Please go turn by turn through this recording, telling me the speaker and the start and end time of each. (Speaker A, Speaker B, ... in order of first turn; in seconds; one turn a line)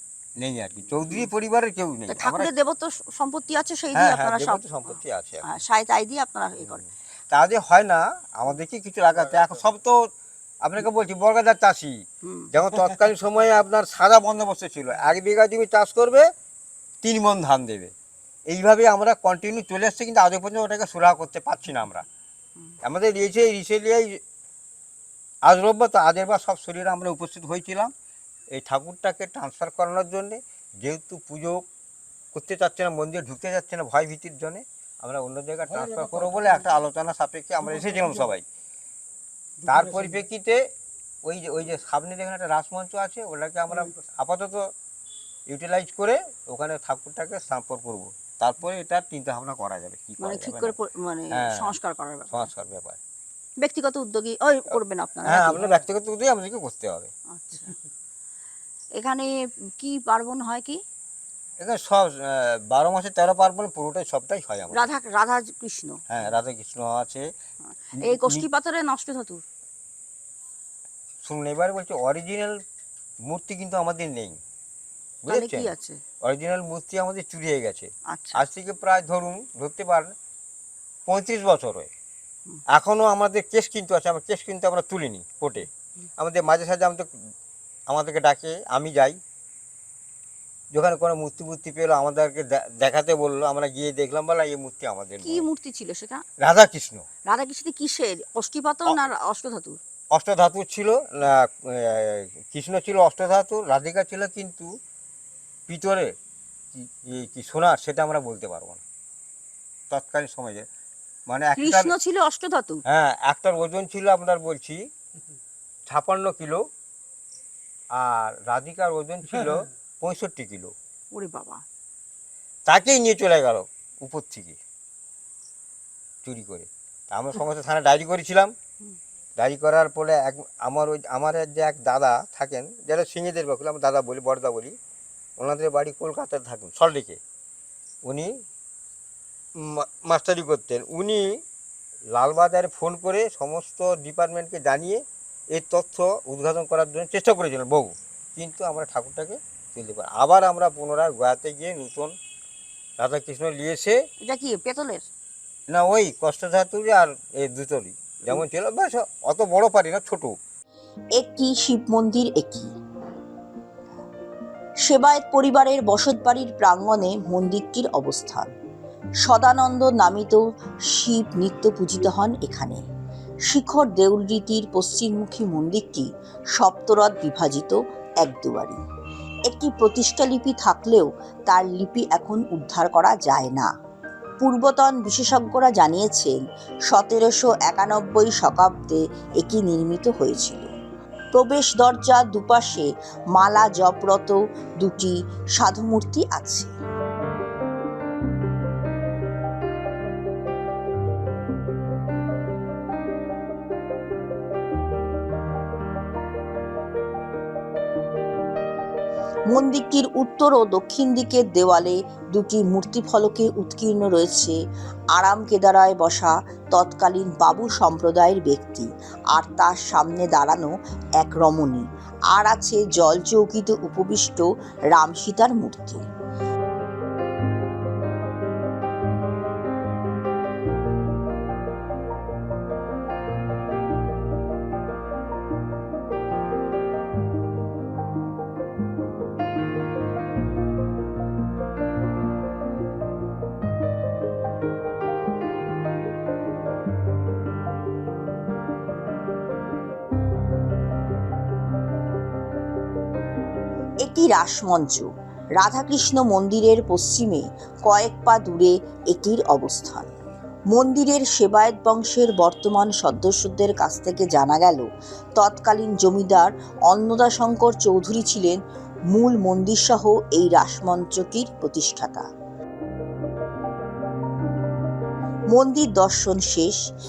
Speaker A: 0.4-2.5
Speaker B: 2.1-4.6
Speaker A: 3.9-5.5
Speaker B: 5.4-6.8
Speaker A: 6.7-10.0
Speaker A: 10.6-11.9
Speaker B: 12.2-12.5
Speaker A: 12.5-16.3
Speaker A: 17.0-17.9
Speaker A: 18.5-22.1
Speaker A: 22.8-24.2
Speaker A: 25.4-27.9
Speaker A: 28.5-31.6
Speaker A: 32.3-38.4
Speaker A: 39.6-40.6
Speaker A: 41.2-44.6
Speaker A: 45.5-50.8
Speaker B: 50.2-52.5
Speaker A: 51.3-51.8
Speaker A: 52.3-53.0
Speaker B: 53.6-55.7
Speaker A: 55.2-57.1
Speaker B: 57.3-57.8
Speaker B: 59.0-60.8
Speaker A: 61.6-64.9
Speaker B: 64.7-66.0
Speaker A: 66.1-67.3
Speaker B: 67.7-69.4
Speaker A: 68.0-68.5
Speaker A: 71.2-72.6
Speaker A: 73.2-74.4
Speaker A: 75.2-75.7
Speaker B: 75.3-76.0
Speaker A: 76.2-80.1
Speaker B: 78.1-78.4
Speaker A: 81.1-81.9
Speaker A: 82.7-87.1
Speaker A: 87.9-89.2
Speaker A: 90.7-95.5
Speaker B: 95.2-96.2
Speaker A: 96.4-97.0
Speaker B: 97.3-99.8
Speaker A: 100.1-104.7
Speaker A: 105.7-106.1
Speaker A: 106.7-108.8
Speaker A: 109.9-110.7
Speaker A: 111.3-111.9
Speaker B: 111.5-112.8
Speaker A: 112.8-114.8
Speaker A: 115.9-116.6
Speaker A: 118.0-120.7
Speaker B: 121.1-121.6
Speaker A: 122.7-124.6
Speaker A: 126.2-128.5
Speaker A: 129.4-134.8
Speaker A: 135.4-137.2
Speaker A: 138.0-138.3
Speaker A: 139.6-141.4
Speaker A: 142.1-152.1
Speaker A: 153.0-154.0
Speaker B: 154.2-155.1
Speaker A: 155.7-160.3
Speaker C: 161.2-162.7
Speaker C: 164.9-168.5
Speaker C: 169.2-172.8
Speaker C: 173.5-178.8
Speaker C: 179.5-183.7
Speaker C: 184.4-186.4
Speaker C: 186.9-190.7
Speaker C: 191.3-196.7
Speaker C: 209.5-214.6
Speaker C: 215.1-226.0
Speaker C: 254.0-255.1
Speaker C: 255.6-260.1
Speaker C: 260.7-264.9
Speaker C: 265.4-268.6
Speaker C: 269.1-272.3
Speaker C: 275.5-276.8